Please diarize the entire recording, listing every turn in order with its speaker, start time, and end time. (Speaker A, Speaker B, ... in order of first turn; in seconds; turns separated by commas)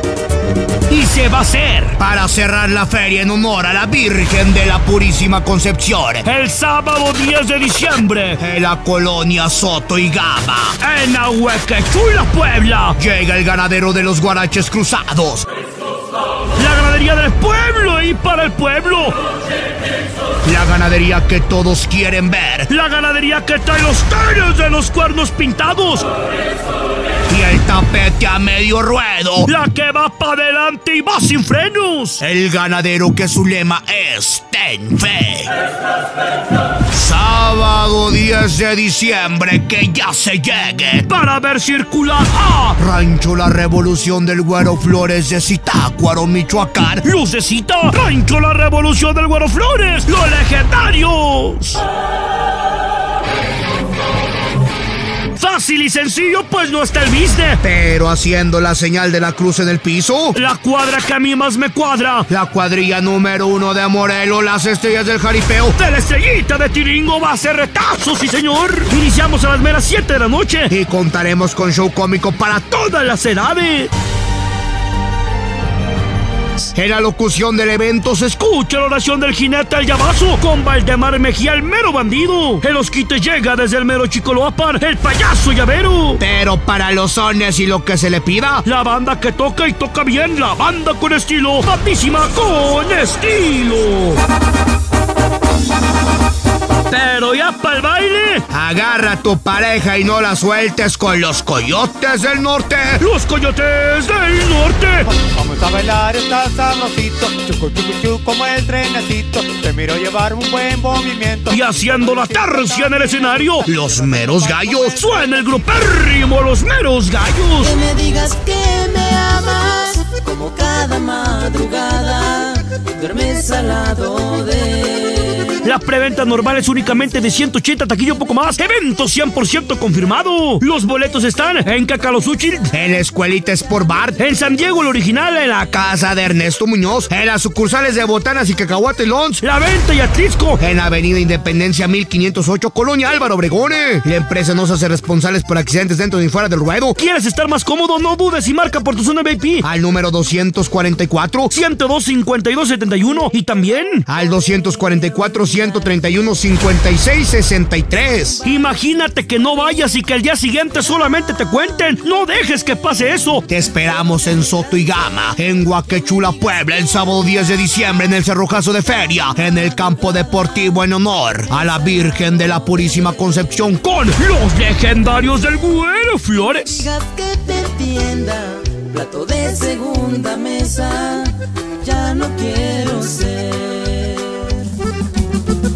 Speaker A: 0.9-1.9, Speaker B: 2.0-6.2, Speaker A: 6.2-8.4, Speaker B: 8.4-10.8, Speaker A: 10.8-13.0, Speaker B: 13.0-15.5, Speaker A: 16.6-19.2, Speaker B: 20.4-22.7, Speaker A: 22.7-26.1, Speaker B: 27.3-29.5, Speaker A: 29.4-32.2, Speaker B: 32.2-35.5, Speaker B: 36.9-41.1, Speaker A: 41.1-42.8, Speaker B: 42.8-47.0, Speaker A: 47.0-51.8, Speaker A: 55.3-57.6, Speaker B: 57.6-60.4, Speaker A: 60.3-62.3, Speaker B: 62.3-65.8, Speaker A: 65.8-70.7, Speaker B: 70.7-72.9, Speaker A: 72.8-73.9, Speaker B: 76.7-78.4, Speaker A: 78.4-86.2, Speaker B: 86.2-88.6, Speaker A: 88.6-94.2, Speaker A: 96.9-98.4, Speaker B: 98.5-103.0, Speaker A: 103.0-105.1, Speaker C: 105.1-115.6, Speaker A: 111.5-113.7, Speaker B: 113.6-115.0, Speaker A: 115.0-117.8, Speaker D: 117.6-125.6, Speaker A: 125.6-132.7, Speaker B: 132.7-134.2, Speaker A: 134.2-135.7, Speaker B: 135.6-139.4, Speaker A: 139.4-140.6, Speaker B: 140.6-147.0, Speaker A: 147.0-149.6, Speaker B: 149.6-151.5, Speaker A: 151.5-154.0, Speaker B: 154.1-158.4, Speaker A: 158.4-163.4, Speaker B: 163.5-173.9, Speaker A: 173.8-176.8, Speaker D: 176.7-184.8